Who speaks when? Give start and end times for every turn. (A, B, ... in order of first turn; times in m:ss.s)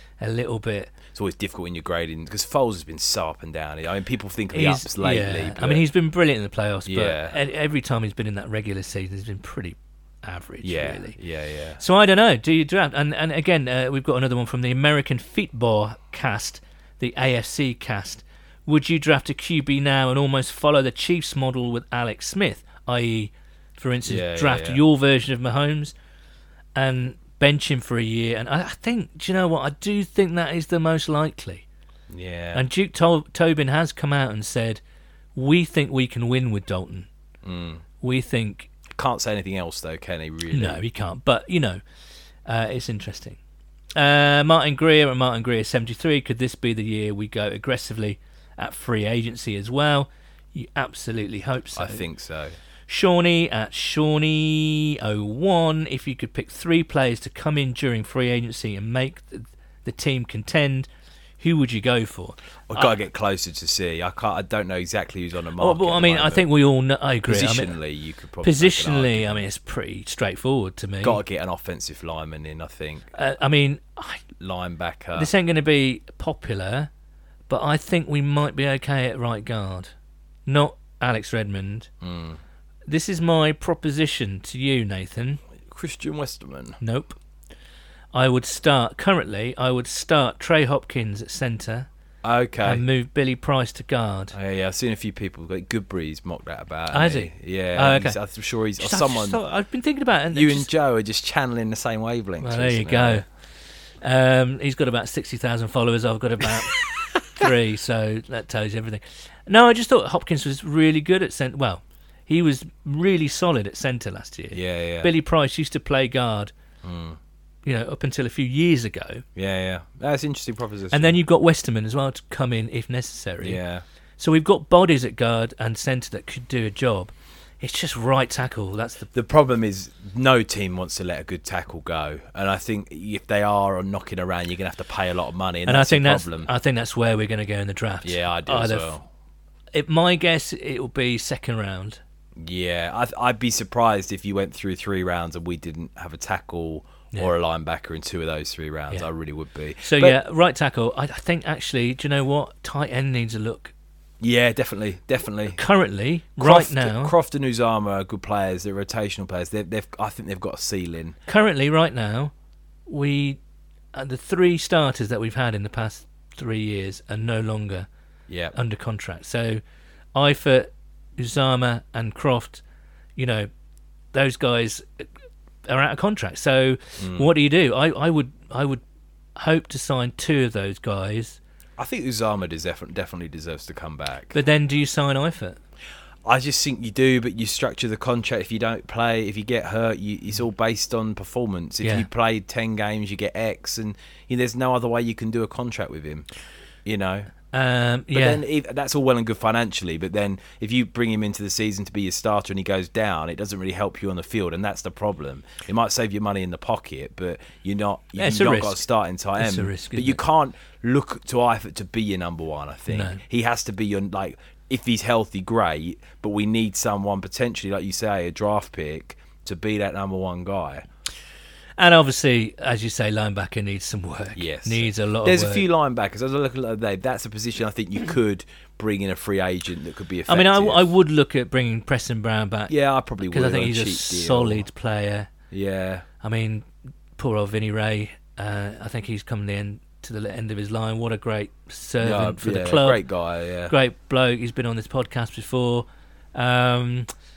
0:00.2-0:00.9 A
0:01.1-0:05.8 B
0:04.5-0:11.2 A
0:06.9-0:07.4 B
0:10.6-0:11.8 B
0:11.8-0:25.9 A
0:24.1-0:24.8 B
0:26.8-0:31.6 A
0:32.1-0:32.6 B
0:32.5-0:34.8 A
0:35.4-0:37.1 A
0:37.4-0:37.8 B
0:38.0-0:38.7 A
0:38.9-0:40.8 B
0:40.5-0:41.8 A
0:42.5-0:43.4 A
0:44.0-0:52.0 A
0:51.8-0:52.6 B
0:52.9-1:00.9 A
1:01.4-1:02.9 A
1:02.7-1:06.5 B
1:05.6-1:07.8 A
1:07.3-1:09.4 B
1:08.4-1:11.2 A
1:11.0-1:13.1 B
1:13.1-1:14.2 A
1:14.4-1:15.3 B
1:15.2-1:16.9 A
1:17.5-1:19.9 A
1:20.5-1:21.9 A
1:22.0-1:22.4 B
1:22.9-1:25.4 A
1:25.6-1:26.8 B
1:26.8-1:27.2 A
1:28.1-1:31.9 A
1:32.2-1:32.8 B
1:32.6-1:34.4 A
1:34.3-1:39.4 B
1:36.9-1:38.2 A
1:38.8-1:40.7 A
1:40.3-1:43.2 B
1:42.4-1:43.2 A
1:44.0-1:56.5 A
1:54.5-1:55.1 B
1:56.8-1:57.2 B
1:57.6-1:59.2 A
1:59.4-2:01.2 B
2:00.9-2:03.6 A
2:03.4-2:03.8 B
2:04.2-2:09.1 A
2:09.1-2:16.5 B
2:15.7-2:19.0 A
2:18.0-2:19.0 B
2:19.8-2:22.0 A
2:22.4-2:30.2 B
2:29.8-2:33.7 A
2:34.2-2:35.6 B
2:35.6-2:37.2 A
2:36.4-2:41.2 B
2:41.3-2:42.3 A
2:42.9-2:43.4 A
2:43.9-2:47.9 A
2:48.3-2:48.5 B
2:48.5-2:49.6 A
2:50.2-2:52.6 A
2:53.2-2:53.5 A
2:54.1-2:55.0 A
2:55.7-2:58.8 A
2:57.0-2:57.3 B
2:59.4-3:01.4 A
3:01.8-3:04.4 B
3:04.3-3:05.6 A
3:06.2-3:16.3 B
3:16.8-3:17.3 B
3:17.5-3:18.4 A
3:18.1-3:40.8 B
3:28.2-3:28.8 A
3:29.4-3:30.2 A
3:32.9-3:33.2 A
3:41.8-3:45.7 A
3:44.4-3:50.8 B
3:50.3-3:52.7 A
3:52.7-3:54.7 B
3:53.3-3:55.3 A
3:55.5-3:56.1 B
3:56.2-4:03.0 A
4:02.0-4:03.7 B
4:03.7-4:07.1 A